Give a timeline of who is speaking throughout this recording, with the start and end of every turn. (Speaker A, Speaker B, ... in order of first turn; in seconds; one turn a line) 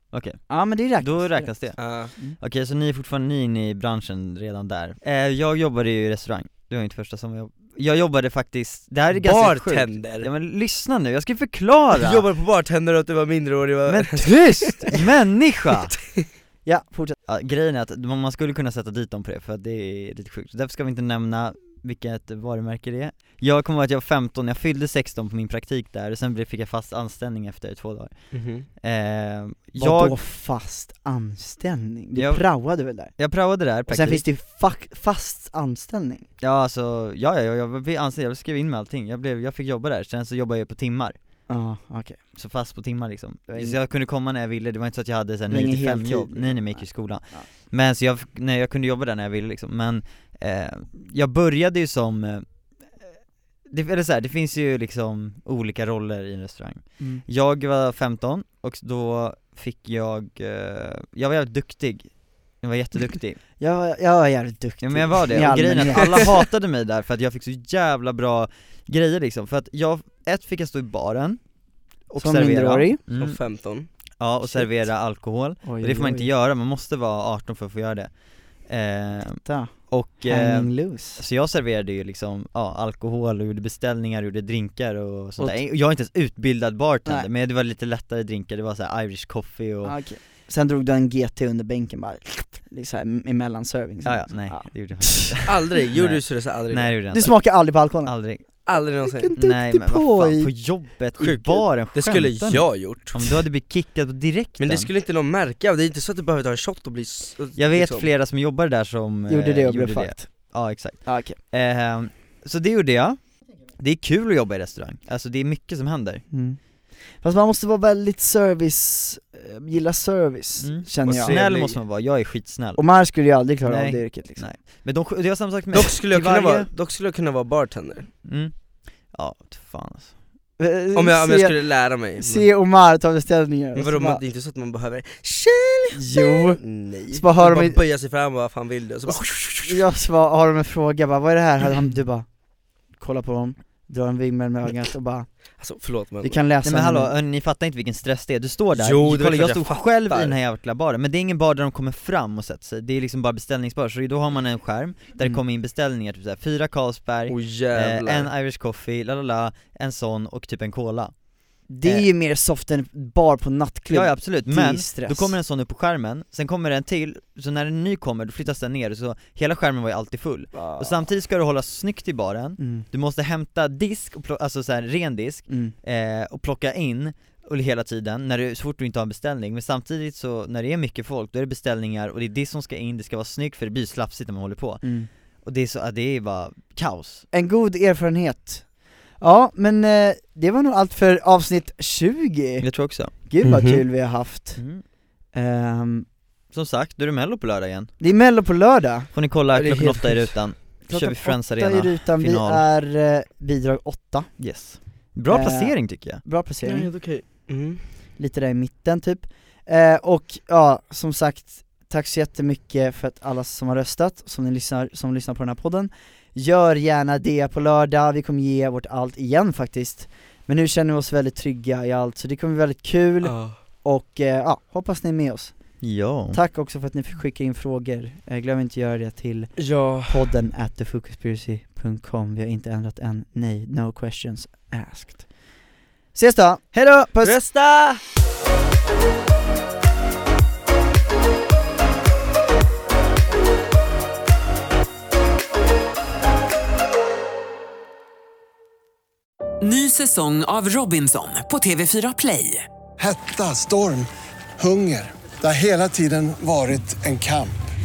Speaker A: 0.1-12.3
Speaker B: 0.5-2.4
Speaker C: 1.8-2.1
Speaker C: 9.1-10.3
Speaker C: 11.9-15.0
Speaker A: 13.9-16.0
Speaker B: 16.6-17.2
Speaker A: 17.3-30.2
Speaker C: 28.3-28.7
Speaker B: 29.8-33.2
Speaker A: 32.1-32.5
Speaker A: 33.0-34.2
Speaker B: 33.9-36.3
Speaker A: 36.4-41.2
Speaker B: 41.5-42.2
Speaker A: 42.4-53.1
Speaker B: 43.5-43.8
Speaker B: 45.5-47.5
Speaker A: 53.7-63.4
Speaker B: 57.0-57.2
Speaker B: 63.6-66.4
Speaker A: 64.8-71.4
Speaker C: 66.0-66.2
Speaker A: 72.1-73.4
Speaker B: 72.2-73.0
Speaker C: 73.1-73.9
Speaker A: 74.2-90.0
Speaker B: 74.4-74.7
Speaker B: 75.6-76.3
Speaker B: 79.4-81.2
Speaker B: 89.8-95.5
Speaker A: 94.0-97.5
Speaker C: 95.5-97.0
Speaker B: 97.1-98.1
Speaker A: 98.0-98.5
Speaker C: 98.7-99.3
Speaker B: 99.0-100.5
Speaker A: 99.4-104.9
Speaker C: 101.2-103.3
Speaker C: 104.6-108.1
Speaker A: 107.6-113.2
Speaker B: 109.3-110.3
Speaker B: 111.0-111.4
Speaker A: 113.7-116.2
Speaker B: 116.3-116.6
Speaker B: 117.2-121.4
Speaker A: 120.6-122.8
Speaker C: 121.1-121.8
Speaker B: 122.8-124.5
Speaker A: 123.7-126.7
Speaker C: 125.7-128.1
Speaker A: 128.2-128.5
Speaker A: 129.1-130.1
Speaker B: 130.6-131.6
Speaker C: 130.9-132.5
Speaker B: 132.2-134.2
Speaker C: 133.8-139.8
Speaker B: 135.9-137.8
Speaker B: 139.1-145.3
Speaker C: 145.6-146.4
Speaker B: 146.2-147.1
Speaker A: 146.6-161.1
Speaker C: 148.8-150.4
Speaker C: 157.3-158.3
Speaker B: 161.7-165.4
Speaker A: 161.8-162.1
Speaker A: 163.9-187.2
Speaker B: 170.5-171.1
Speaker B: 172.6-172.9
Speaker B: 175.5-175.8
Speaker B: 184.8-185.1
Speaker B: 187.3-194.6
Speaker A: 192.6-193.1
Speaker C: 193.4-193.8
Speaker A: 194.6-194.8
Speaker B: 195.3-196.1
Speaker A: 196.5-197.9
Speaker B: 198.0-199.1
Speaker A: 199.1-202.7
Speaker C: 199.5-200.4
Speaker B: 200.9-204.3
Speaker A: 204.4-206.2
Speaker B: 205.3-206.9
Speaker C: 206.6-207.9
Speaker B: 208.2-225.5
Speaker C: 223.2-223.6
Speaker A: 225.8-226.4
Speaker B: 226.3-235.5
Speaker C: 229.6-230.2
Speaker B: 236.1-237.4
Speaker C: 237.2-238.0
Speaker D: 249.6-252.7
Speaker E: 253.0-257.6